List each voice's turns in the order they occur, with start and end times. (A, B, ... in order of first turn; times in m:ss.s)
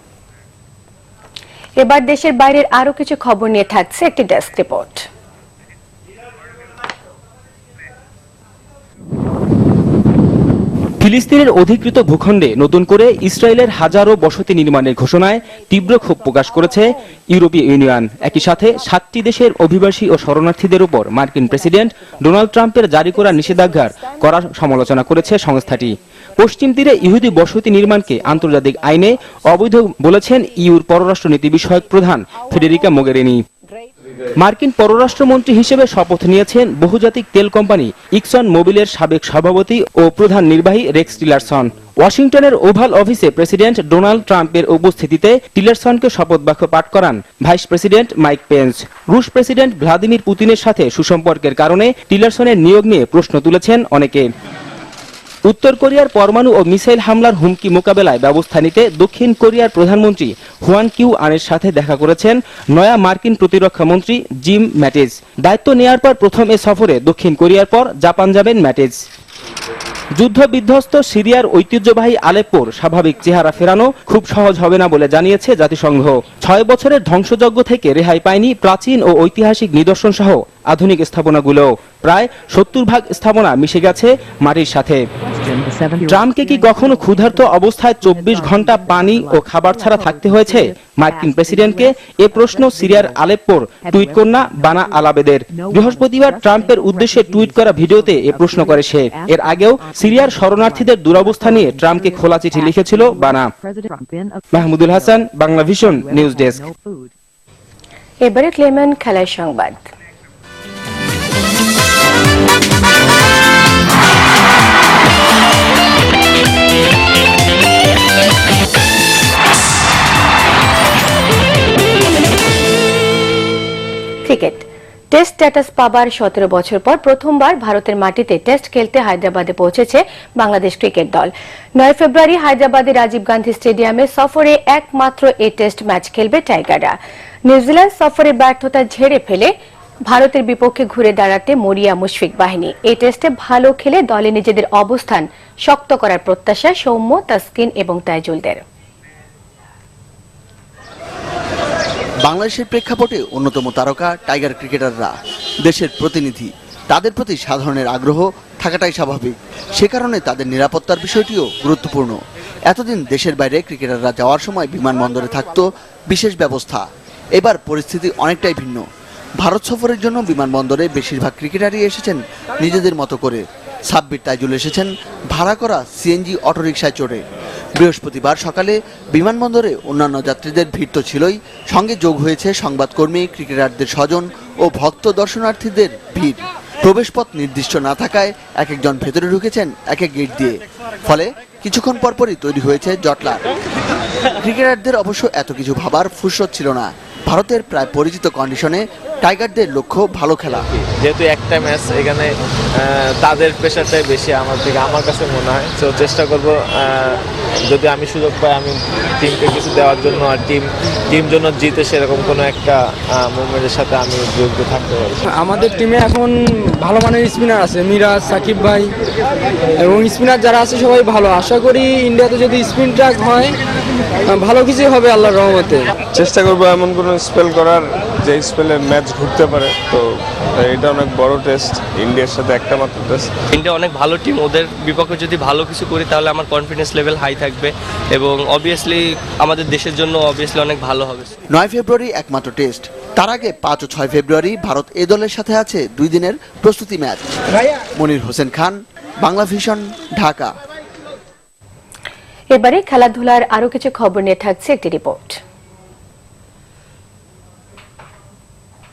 0:01.8-0:05.0 A
0:11.0-0:33.4 B
0:34.4-0:54.3 B
0:55.5-1:09.0 B
1:10.2-1:25.0 B
1:26.1-1:43.5 B
1:44.5-1:46.7 B
1:48.2-1:49.8 A
2:04.2-2:19.5 A
2:20.1-2:28.6 A
2:32.3-2:35.1 C
2:35.6-2:46.8 C
2:47.4-2:48.8 C
2:49.4-2:57.2 C
2:57.8-3:13.4 C
3:14.4-3:20.8 C
3:21.0-3:22.3 D
3:22.8-3:35.2 D
3:35.3-3:38.9 E
3:39.8-3:43.5 E
3:44.3-3:45.9 E
3:46.1-3:53.3 F
3:53.5-4:01.3 G
4:01.5-4:07.2 C
4:08.0-4:10.5 C
4:12.5-4:15.4 A